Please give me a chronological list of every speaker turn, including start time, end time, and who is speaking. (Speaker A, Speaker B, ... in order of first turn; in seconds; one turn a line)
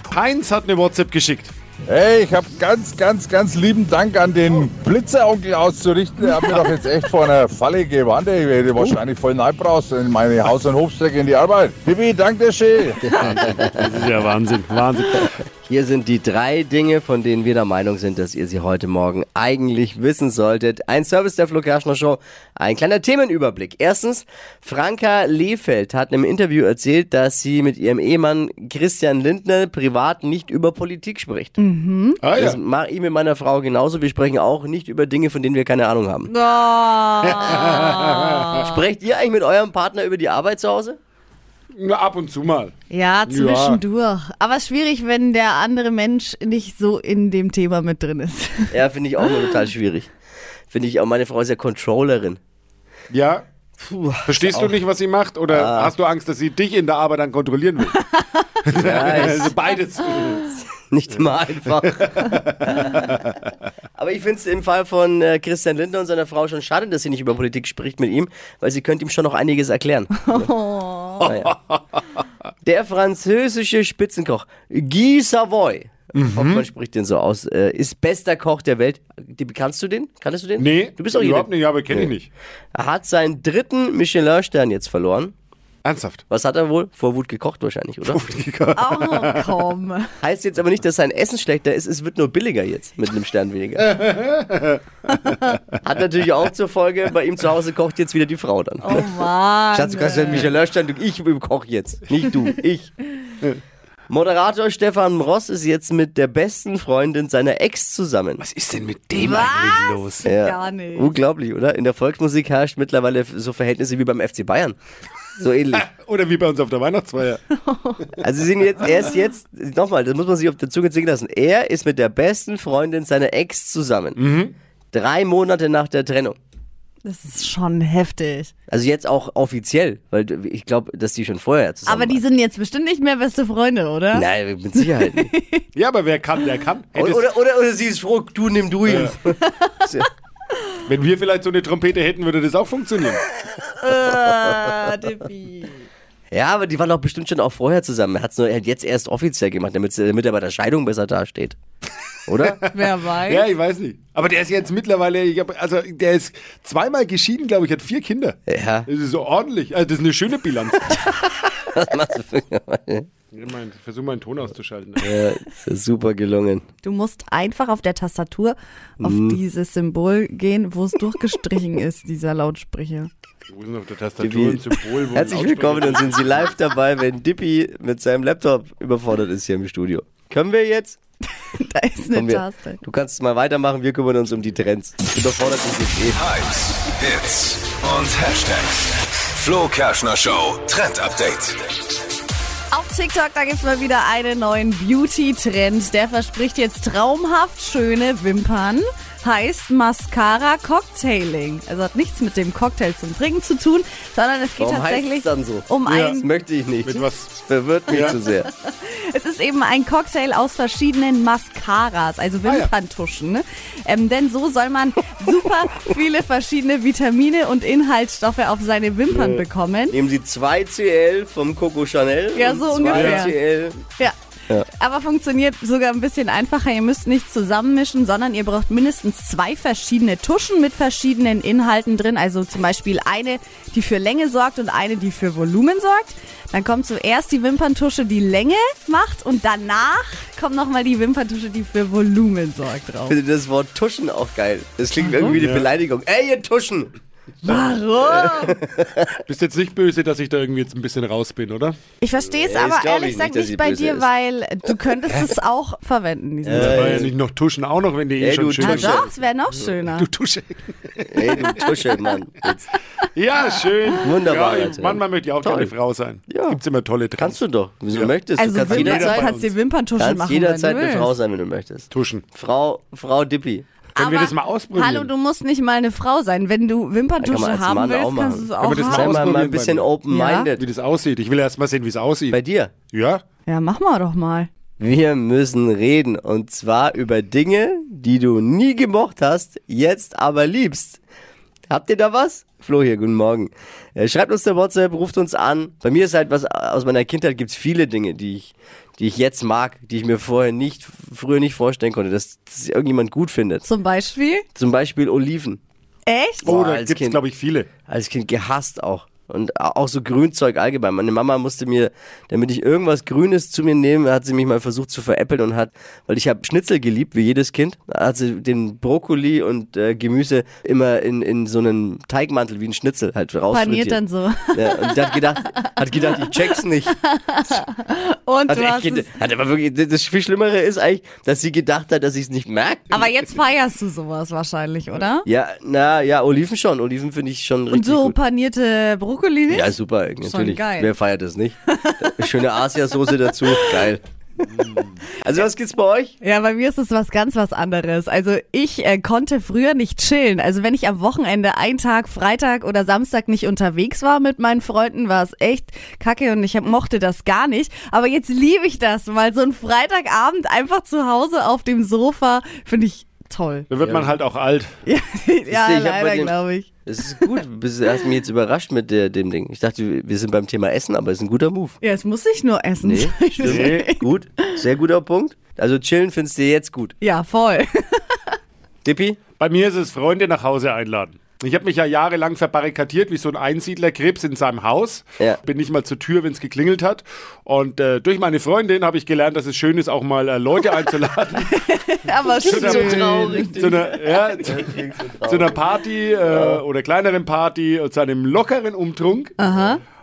Speaker A: 0.1-1.5
Speaker B: 1.9-13.2
Speaker C: 13.0-13.9
Speaker A: 13.2-15.3
Speaker C: 15.2-31.6
Speaker D: 31.6-32.2
Speaker A: 32.2-32.6
Speaker C: 32.3-36.3
Speaker D: 36.3-38.7
Speaker A: 37.2-38.2
Speaker C: 38.6-41.0
Speaker A: 41.7-42.7
Speaker D: 42.9-49.5
Speaker A: 43.2-43.8
Speaker C: 48.7-50.1
Speaker C: 50.7-52.4
Speaker A: 53.1-53.4
Speaker C: 53.8-54.8
Speaker A: 54.2-58.0
Speaker C: 55.5-55.9
Speaker A: 58.6-60.6
Speaker C: 58.8-59.5
Speaker C: 60.8-62.1
Speaker A: 61.9-63.4
Speaker C: 62.6-62.9
Speaker C: 64.0-70.5
Speaker D: 70.2-71.2
Speaker A: 71.2-72.2
Speaker C: 71.2-71.5
Speaker C: 72.6-82.1
Speaker A: 76.1-76.6
Speaker A: 80.6-82.3
Speaker C: 82.7-85.3
Speaker A: 85.8-86.2
Speaker C: 86.3-88.3
Speaker A: 88.0-89.6
Speaker D: 88.8-90.1
Speaker C: 90.2-93.9
Speaker A: 93.9-94.8
Speaker C: 95.8-99.0
Speaker D: 98.8-100.5
Speaker C: 99.7-102.9
Speaker C: 104.1-108.4
Speaker A: 108.4-110.2
Speaker D: 109.1-111.1
Speaker C: 110.2-114.8
Speaker C: 115.4-115.8
Speaker A: 115.7-117.4
Speaker D: 117.5-118.0
Speaker C: 118.2-124.2
Speaker A: 124.2-124.5
Speaker C: 124.9-126.4
Speaker D: 127.0-128.5
Speaker C: 128.7-132.2
Speaker D: 131.8-135.7
Speaker C: 134.1-135.3
Speaker A: 135.7-137.2
Speaker C: 136.9-140.1
Speaker A: 138.9-139.1
Speaker A: 140.9-143.2
Speaker D: 143.8-145.9
Speaker C: 146.3-151.6
Speaker C: 152.3-152.6
Speaker D: 152.7-153.4
Speaker A: 153.2-161.0
Speaker C: 158.5-158.9
Speaker C: 160.9-163.1
Speaker A: 163.3-165.1
Speaker C: 165.0-166.6
Speaker D: 166.8-173.1
Speaker C: 169.0-169.4
Speaker A: 173.5-176.4
Speaker C: 174.2-181.0
Speaker D: 181.5-182.8
Speaker C: 182.1-186.2
Speaker E: 186.2-191.6
Speaker D: 192.7-206.2
Speaker C: 204.6-208.5
Speaker A: 205.9-206.2
Speaker A: 206.8-207.3
Speaker A: 207.9-208.1
Speaker D: 208.6-219.9
Speaker A: 212.4-212.7
Speaker A: 219.1-219.4
Speaker C: 219.9-223.8
Speaker D: 222.3-223.3
Speaker A: 222.8-223.3
Speaker D: 224.7-243.2
Speaker C: 243.1-246.9
Speaker D: 245.0-245.3
Speaker A: 245.3-245.7
Speaker D: 247.4-248.6
Speaker C: 248.1-249.1
Speaker A: 249.3-251.8
Speaker D: 252.0-256.8
Speaker C: 252.2-254.1
Speaker C: 256.4-257.1
Speaker A: 256.5-259.0
Speaker C: 258.2-259.1
Speaker D: 258.6-260.1
Speaker A: 259.5-261.6
Speaker C: 261.1-262.6
Speaker A: 263.1-269.5
Speaker C: 264.0-265.7
Speaker C: 266.3-266.6
Speaker C: 267.1-269.3
Speaker D: 268.4-271.1
Speaker C: 270.0-273.6
Speaker A: 271.9-272.2
Speaker D: 273.9-279.3
Speaker A: 274.0-275.1
Speaker C: 277.2-280.6
Speaker A: 278.6-279.9
Speaker D: 280.1-280.5
Speaker A: 280.6-282.4
Speaker C: 282.3-282.7
Speaker A: 282.9-283.2
Speaker D: 283.4-284.5
Speaker C: 284.8-291.0
Speaker C: 291.7-303.7
Speaker D: 303.6-304.4
Speaker C: 304.5-305.6
Speaker D: 306.1-306.5
Speaker C: 306.4-307.2
Speaker A: 306.4-307.7
Speaker C: 307.9-324.0
Speaker D: 323.5-326.2
Speaker C: 324.5-326.9
Speaker D: 327.0-329.1
Speaker C: 328.5-333.0
Speaker D: 332.9-335.2
Speaker C: 335.2-338.2
Speaker D: 337.7-340.9
Speaker C: 339.5-344.0
Speaker D: 341.7-342.1
Speaker D: 343.5-343.8
Speaker A: 344.6-344.9
Speaker C: 345.2-346.1
Speaker D: 346.2-363.7
Speaker A: 363.7-364.7
Speaker D: 364.8-367.4
Speaker C: 365.5-371.8
Speaker D: 371.8-374.1
Speaker C: 372.8-376.9
Speaker A: 373.4-373.8
Speaker D: 377.0-378.2
Speaker C: 378.8-379.2
Speaker A: 379.4-391.5
Speaker D: 391.5-393.5
Speaker C: 392.4-395.7
Speaker A: 392.4-399.3
Speaker C: 396.2-396.6
Speaker D: 399.4-399.8